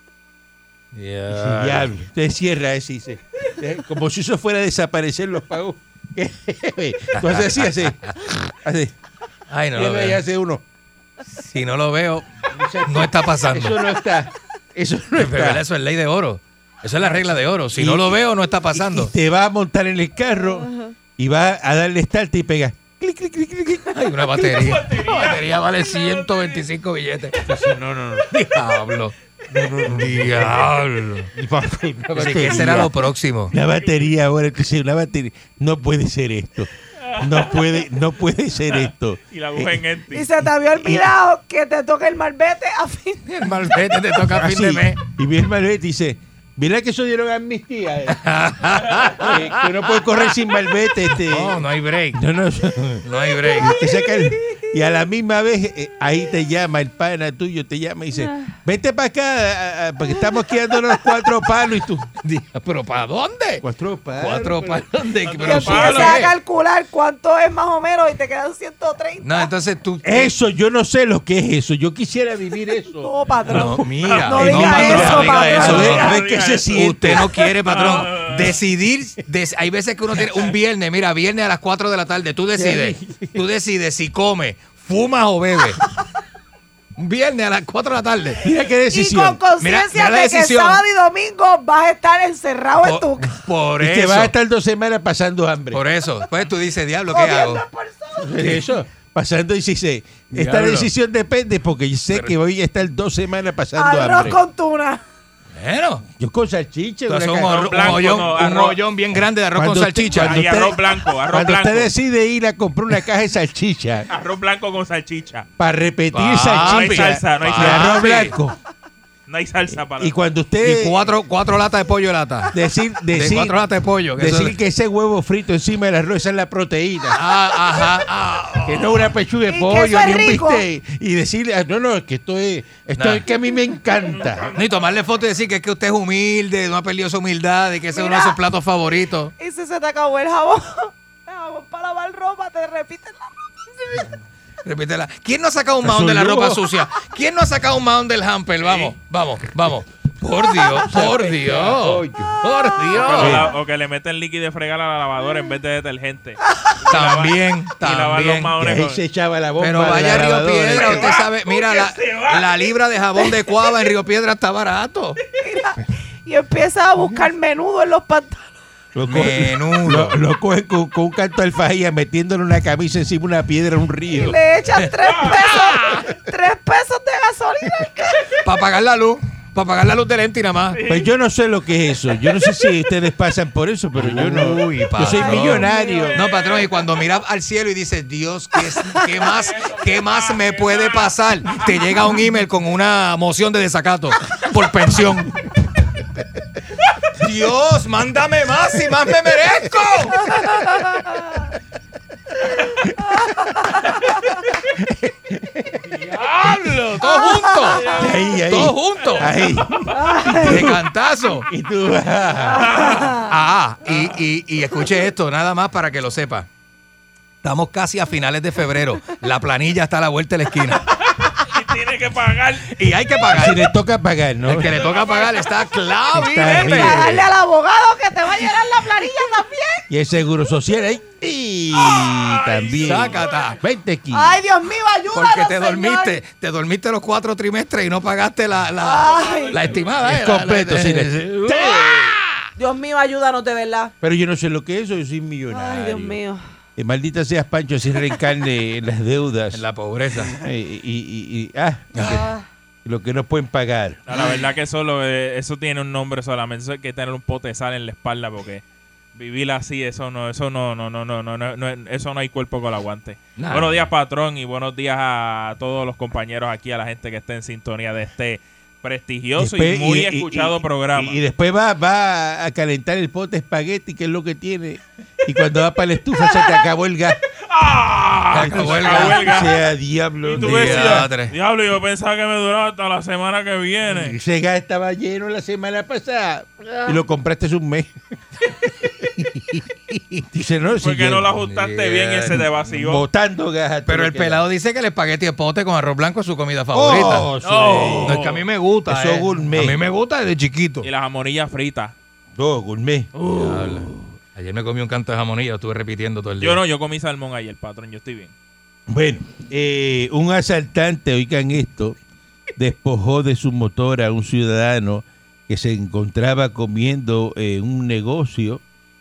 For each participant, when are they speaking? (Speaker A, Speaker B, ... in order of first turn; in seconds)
Speaker A: 0.9-1.9, 7.2-7.9, 9.5-10.2, 11.3-13.8, 15.2-19.1, 23.9-27.4, 28.3-29.1, 29.8-31.3, 32.1-33.5, 43.3-45.0, 48.1-50.0, 51.2-52.2, 53.0-53.8, 62.2-63.6, 64.2-66.3, 69.2-70.3, 73.5-76.2, 76.7-85.8, 87.0-88.5, 89.6-90.8, 92.8-94.3, 95.7-97.6, 100.3-100.9, 105.6-106.1, 107.1-110.5, 116.1-118.3, 120.6-122.5, 123.1-124.6, 127.1-129.1, 133.0-133.3, 134.5-139.3, 144.6-153.5, 156.9-158.5, 159.6-165.2, 169.0-170.2, 178.4-180.8, 183.9-195.4, 197.1-200.5, 206.4-209.4, 210.4-211.5, 213.2-216.5, 217.4-221.0, 222.7-223.7, 224.4-227.2, 232.8-233.6, 235.1-242.4, 249.5-250.3, 263.4-263.9, 278.3-279.5, 280.3-281.4, 291.3-292.6, 293.9-300.9, 303.2-306.6
Speaker B: 1.3-8.9, 9.7-10.6, 12.5-15.6, 17.7-18.2, 18.7-24.2, 27.4-28.7, 29.5-30.8, 31.3-33.0, 33.5-39.8, 44.2-62.1, 63.6-66.1, 70.0-73.1, 74.3-77.3, 82.5-83.4, 88.4-89.4, 93.8-95.8, 98.2-104.4, 106.2-108.0, 109.5-114.1, 115.6-118.6, 120.0-121.1, 122.5-123.6, 124.2-127.2, 128.7-134.5, 145.8-146.7, 150.7-152.5, 153.2-153.5, 158.6-161.2, 168.9-174.4, 180.9-186.2, 204.8-206.0, 207.9-210.9, 211.5-212.9, 223.3-224.8, 226.1-227.2, 229.9-234.4, 240.0-242.0, 244.0-246.2, 246.8-249.6, 250.1-252.2, 252.8-254.3, 269.4-277.2, 278.4-281.1, 283.9-287.9, 288.5-291.3, 292.7-294.4, 296.7-298.2, 298.9-299.8, 302.4-304.1, 308.9-312.0, 312.6-318.6
Speaker C: 20.6-20.9, 40.1-43.3, 65.4-69.5, 73.0-76.1, 88.9-93.3, 97.1-98.3, 103.8-105.0, 129.5-130.6, 137.9-138.4, 139.4-144.1, 165.4-168.6, 174.1-178.2, 185.0-186.2, 203.3-204.0, 207.0-207.8, 209.9-210.6, 212.4-213.3, 226.5-229.9, 234.1-236.2, 238.8-239.6, 242.6-243.9, 245.5-246.4, 252.1-252.4
Speaker D: 24.5-26.6, 37.1-37.7, 38.7-40.3, 65.3-66.2, 74.0-76.8, 77.6-78.4, 107.5-108.8, 110.1-111.9, 114.1-115.5, 116.6-118.3, 119.3-120.2, 152.9-159.0, 160.8-162.6, 180.7-181.1, 186.2-186.8, 189.5-191.6, 206.0-206.5, 207.8-208.2, 212.7-213.1, 221.1-222.8, 224.8-225.5, 231.9-233.3, 254.1-258.6, 259.1-271.2, 277.4-279.6, 280.2-284.2, 290.8-293.1, 297.4-298.4, 300.8-301.9, 306.4-308.3